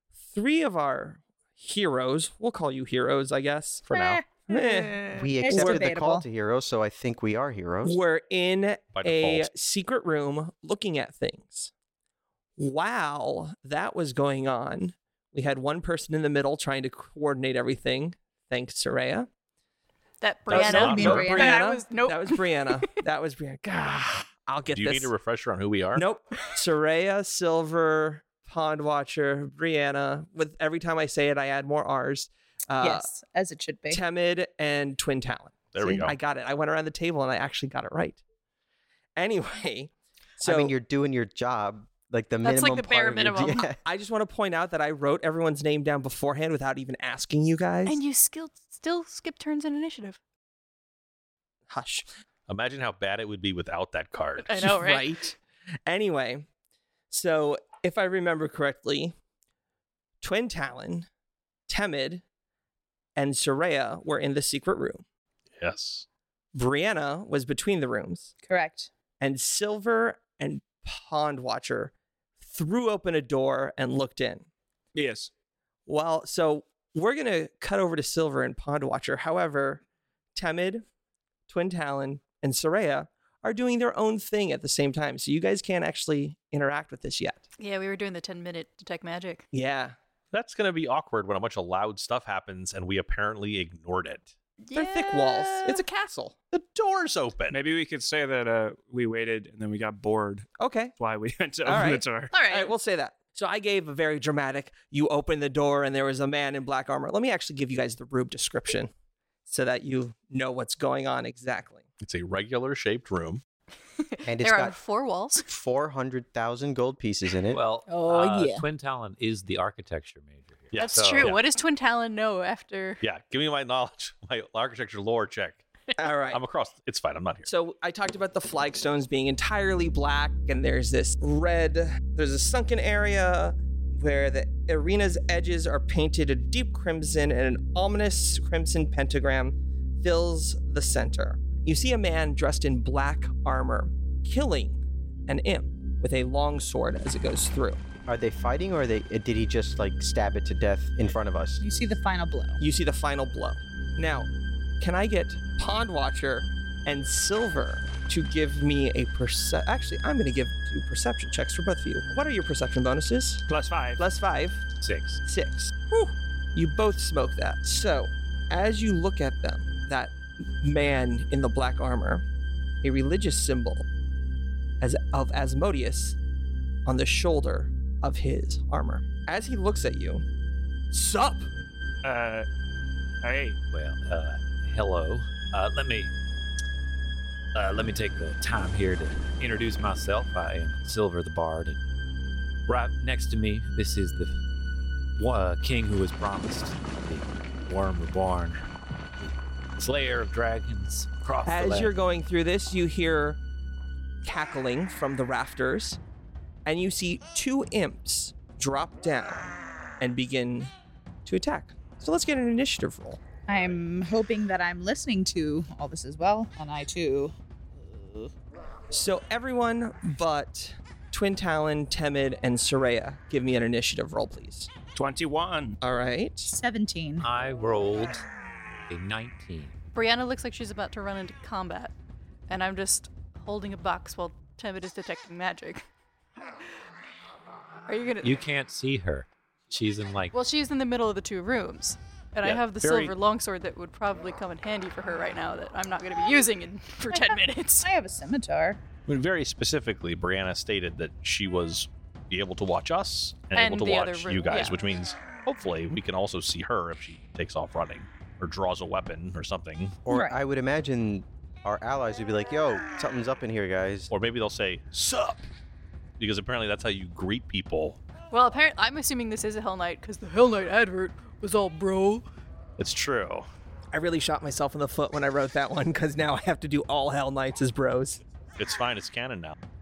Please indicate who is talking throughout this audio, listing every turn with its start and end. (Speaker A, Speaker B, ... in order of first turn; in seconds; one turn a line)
Speaker A: 0.2-3.9
Speaker B: 3.9-4.3
Speaker C: 3.9-6.2
Speaker A: 4.5-5.8
Speaker D: 5.1-8.0
Speaker A: 7.8-11.7
Speaker B: 8.9-9.5
Speaker A: 12.6-19.3
Speaker E: 20.2-22.8
Speaker B: 20.5-21.4
Speaker A: 20.5-25.1
Speaker C: 20.6-21.7
Speaker B: 24.7-26.1
Speaker A: 25.9-33.1
Speaker C: 32.8-34.0
Speaker A: 33.9-38.2
Speaker B: 35.7-36.2
Speaker A: 39.2-40.7
Speaker D: 40.4-43.8
Speaker E: 42.4-43.7
Speaker A: 43.8-48.0
Speaker E: 47.9-50.2
Speaker A: 51.7-52.1
Speaker B: 52.5-54.7
Speaker E: 54.4-55.2
Speaker A: 54.6-56.5
Speaker A: 57.1-59.1
Speaker A: 60.2-61.1
Speaker A: 61.7-62.2
Speaker A: 63.2-65.0
Speaker B: 65.6-66.0
Speaker A: 66.5-68.3
Speaker C: 68.4-68.9
Speaker A: 69.2-74.5
Speaker F: 74.9-75.3
Speaker A: 75.9-79.8
Speaker A: 80.3-80.8
Speaker A: 81.5-87.5
Speaker E: 87.6-89.5
Speaker A: 89.5-90.0
Speaker B: 90.3-94.3
Speaker E: 94.6-95.8
Speaker A: 94.7-96.3
Speaker B: 96.5-97.6
Speaker F: 97.5-102.3
Speaker A: 100.6-100.9
Speaker A: 101.7-108.9
Speaker E: 102.3-102.7
Speaker A: 109.5-111.8
Speaker B: 112.0-113.4
Speaker E: 114.0-115.5
Speaker D: 114.2-114.8
Speaker D: 115.5-117.6
Speaker G: 117.5-121.3
Speaker C: 117.9-118.6
Speaker B: 120.7-121.4
Speaker E: 120.7-123.0
Speaker B: 123.0-125.6
Speaker A: 126.0-126.4
Speaker B: 126.3-127.5
Speaker A: 127.5-147.8
Speaker D: 148.1-151.6
Speaker C: 151.6-152.6
Speaker A: 152.6-154.3
Speaker A: 154.8-163.4
Speaker F: 163.5-164.0
Speaker A: 164.0-164.6
Speaker G: 164.8-165.2
Speaker A: 165.2-172.2
Speaker A: 172.8-173.8
Speaker A: 174.8-176.2
Speaker A: 176.8-180.2
Speaker A: 180.9-181.5
Speaker F: 182.0-182.5
Speaker F: 183.2-183.6
Speaker G: 183.7-186.1
Speaker G: 187.5-191.8
Speaker G: 192.7-194.3
Speaker G: 195.2-198.6
Speaker G: 199.2-201.9
Speaker A: 201.5-203.4
Speaker A: 204.2-206.0
Speaker A: 206.7-210.7
Speaker A: 211.2-213.2
Speaker C: 213.5-217.3
Speaker C: 217.9-218.3
Speaker A: 218.9-224.7
Speaker F: 224.9-225.8
Speaker A: 225.8-226.5
Speaker C: 226.4-227.2
Speaker G: 227.2-228.2
Speaker G: 228.9-229.8
Speaker E: 229.9-231.9
Speaker E: 232.5-235.8
Speaker E: 237.9-238.4
Speaker G: 238.2-240.3
Speaker E: 240.3-247.9
Speaker B: 242.4-243.1
Speaker C: 247.1-248.8
Speaker B: 249.1-260.0
Speaker E: 253.5-254.8
Speaker D: 260.1-264.1
Speaker C: 260.1-260.4
Speaker B: 264.1-265.5
Speaker B: 266.2-268.0
Speaker E: 268.3-272.3
Speaker B: 272.8-273.5
Speaker A: 273.9-278.2
Speaker B: 278.6-279.6